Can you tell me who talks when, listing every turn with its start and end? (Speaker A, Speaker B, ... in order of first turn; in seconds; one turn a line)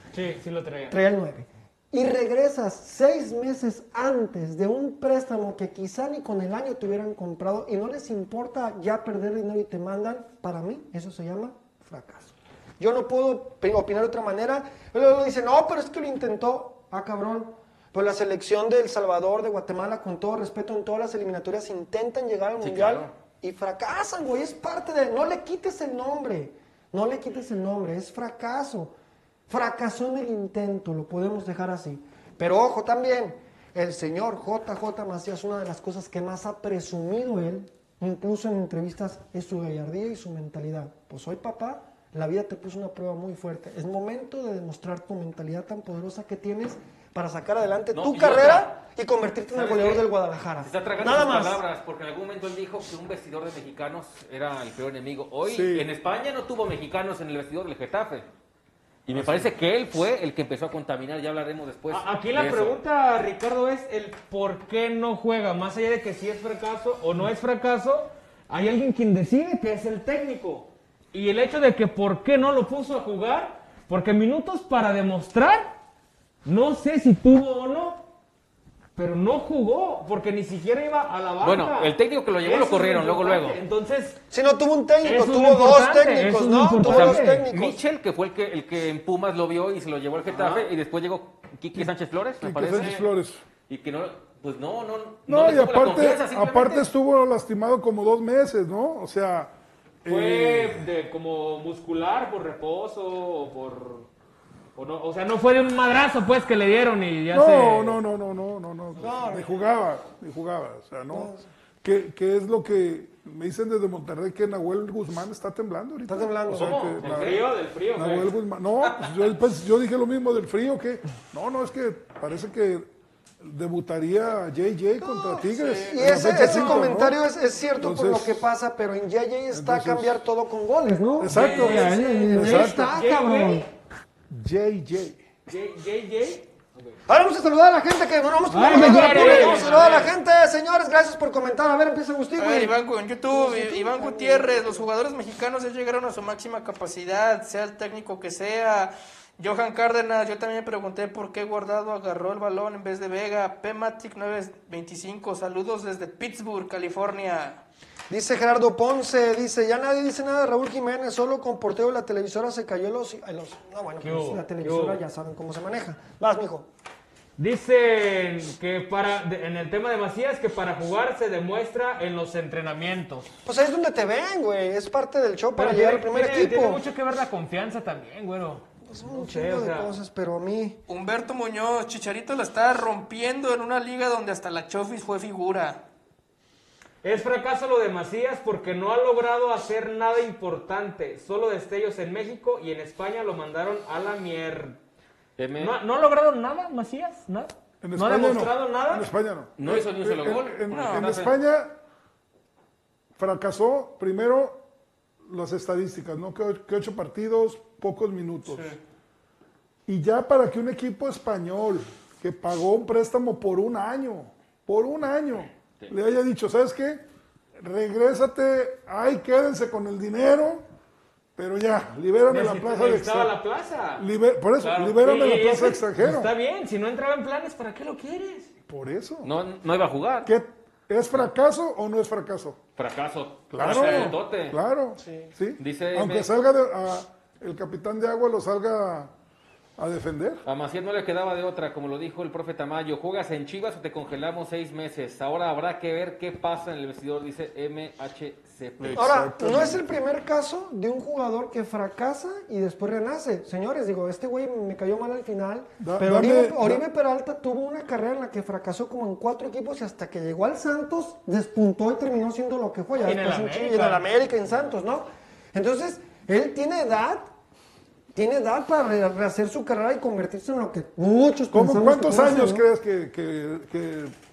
Speaker A: 0.1-1.0
Speaker B: 0.9-28.9
Speaker C: 22.6-23.1
Speaker B: 29.5-51.6
Speaker C: 47.9-48.7
Speaker C: 49.5-50.0
Speaker C: 50.6-58.3
Speaker D: 55.5-55.9
Speaker C: 59.1-62.8
Speaker D: 59.1-59.5
Speaker A: 61.9-75.7
Speaker A: 76.5-78.0
Speaker A: 79.0-84.2
Speaker C: 81.4-83.6
Speaker B: 84.3-87.8
Speaker A: 85.0-87.4
Speaker C: 86.8-93.0
Speaker A: 90.3-90.7
Speaker D: 92.4-93.4
Speaker A: 92.7-93.0
Speaker C: 93.7-96.9
Speaker D: 95.3-99.5
Speaker D: 100.0-100.8
Speaker A: 100.1-104.1
Speaker A: 104.8-108.0
Speaker D: 107.3-111.3
Speaker B: 109.0-109.7
Speaker B: 111.1-111.5
Speaker D: 111.8-122.9
Speaker B: 116.1-116.8
Speaker C: 116.5-117.4
Speaker A: 117.0-118.3
Speaker D: 123.4-127.2
Speaker B: 125.0-133.7
Speaker E: 125.5-126.9
Speaker D: 127.8-128.4
Speaker D: 129.5-130.2
Speaker D: 131.2-132.9
Speaker E: 131.3-132.3
Speaker A: 131.4-133.7
Speaker D: 134.3-135.2
Speaker A: 135.5-136.9
Speaker B: 137.1-144.9
Speaker A: 138.5-139.8
Speaker E: 138.7-140.1
Speaker E: 142.4-157.6
Speaker B: 158.1-166.7
Speaker A: 164.0-165.0
Speaker A: 167.4-173.3
Speaker B: 173.5-176.8
Speaker A: 175.6-179.9
Speaker B: 178.8-180.8
Speaker E: 180.9-185.8
Speaker A: 187.0-194.8
Speaker C: 195.4-195.8
Speaker A: 195.6-199.1
Speaker D: 197.8-201.8
Speaker C: 199.6-201.3
Speaker E: 200.7-201.1
Speaker D: 203.2-204.6
Speaker D: 205.3-208.7
Speaker D: 209.9-217.0
Speaker D: 217.6-220.6
Speaker D: 221.4-223.4
Speaker A: 222.3-224.1
Speaker D: 224.0-226.3
Speaker A: 224.7-228.5
Speaker D: 228.7-229.3
Speaker C: 229.2-230.3
Speaker D: 230.2-232.6
Speaker C: 232.8-234.6
Speaker D: 233.5-239.1
Speaker E: 233.7-234.1
Speaker C: 235.6-236.3
Speaker D: 239.8-240.4
Speaker C: 240.5-249.3
Speaker D: 248.8-249.8
Speaker B: 248.9-267.3
Speaker D: 255.8-256.9
Speaker A: 263.0-264.0
Speaker B: 268.1-272.6
Speaker D: 271.5-274.1